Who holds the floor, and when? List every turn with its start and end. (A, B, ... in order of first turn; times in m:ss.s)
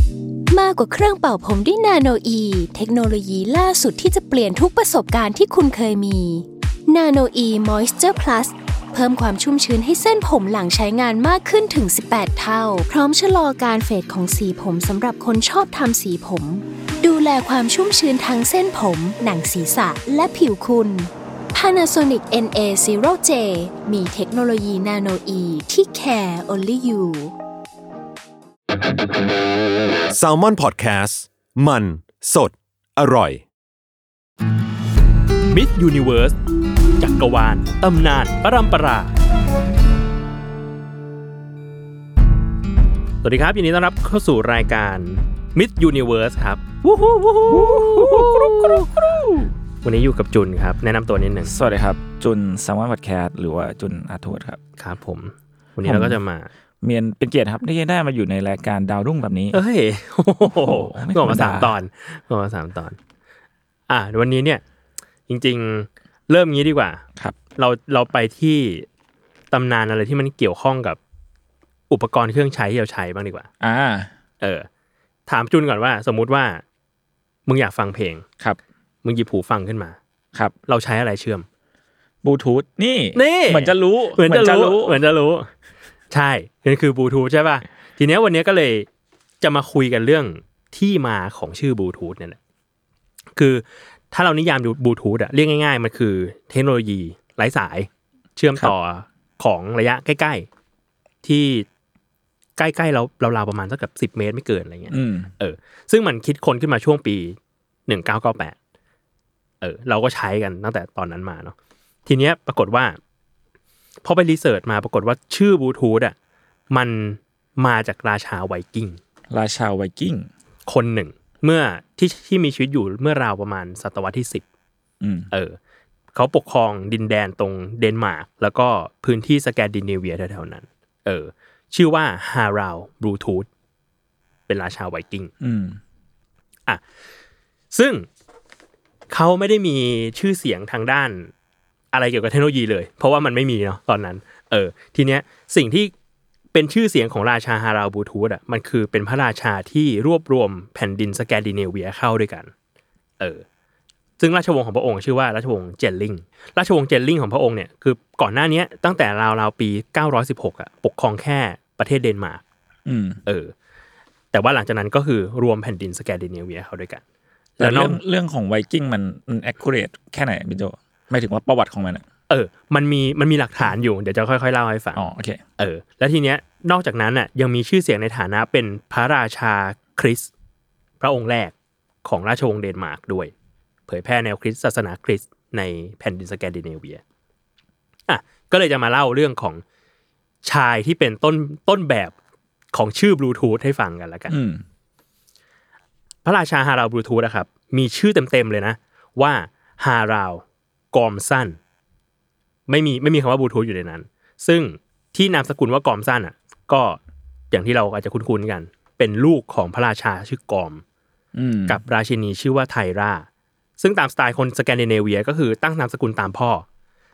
0:00.5-0:27.3 A
0:30.1-0:33.4 B
0:35.5-0:36.4 C
0:37.0-0:39.1 C
0:43.2-0:48.8 C
0:47.5-0:49.5 D
0:49.8-0:51.5 C
0:51.4-0:54.6 D
0:54.8-0:56.5 C
0:55.8-0:56.2 D
0:56.8-0:59.6 D
0:59.5-1:03.0 C
1:00.4-1:01.7 D
1:03.9-1:04.6 C
1:05.3-1:07.0 C
1:07.6-1:08.9 C
1:09.5-1:11.0 C
1:11.9-1:13.5 C
1:13.6-1:14.1 D
1:14.4-1:14.7 C
1:15.3-1:16.6 C
1:17.4-1:18.2 C
1:19.0-1:20.0 C
1:20.7-1:21.4 C
1:22.2-1:25.0 D
1:23.1-1:25.5 C
1:26.1-1:28.9 C
1:29.4-1:32.4 C
1:33.4-1:40.5 C
1:41.2-1:41.6 C
1:42.6-1:48.6 C
1:44.9-1:45.3 D
1:49.6-1:51.5 C
1:52.0-1:53.0 C
1:54.0-1:56.1 C
1:56.7-1:59.0 C
1:59.3-2:00.3 D
2:00.7-2:04.4 C
2:05.0-2:05.3 D
2:05.3-2:05.6 C
2:06.1-2:13.5 C
2:14.5-2:15.3 C
2:15.4-2:15.8 D
2:17.7-2:18.1 C
2:19.1-2:21.3 C
2:21.9-2:25.9 C
2:26.5-2:32.5 C
2:34.2-2:42.4 C
2:42.8-2:43.2 D
2:43.2-2:43.5 C
2:44.3-2:47.0 C
2:47.6-2:48.0 C
2:47.6-2:52.0 D
2:52.3-2:55.0 C
2:54.9-2:55.4 D
2:55.6-3:00.3 C
3:01.0-3:03.3 C
3:03.9-3:07.0 C
3:08.1-3:09.6 C
3:10.4-3:12.1 C
3:12.7-3:14.3 C
3:14.3-3:14.6 D
3:16.2-3:21.6 C
3:22.7-3:27.0 C
3:27.5-3:30.8 C
3:31.3-3:31.8 D
3:31.7-3:33.2 C
3:33.8-3:36.6 C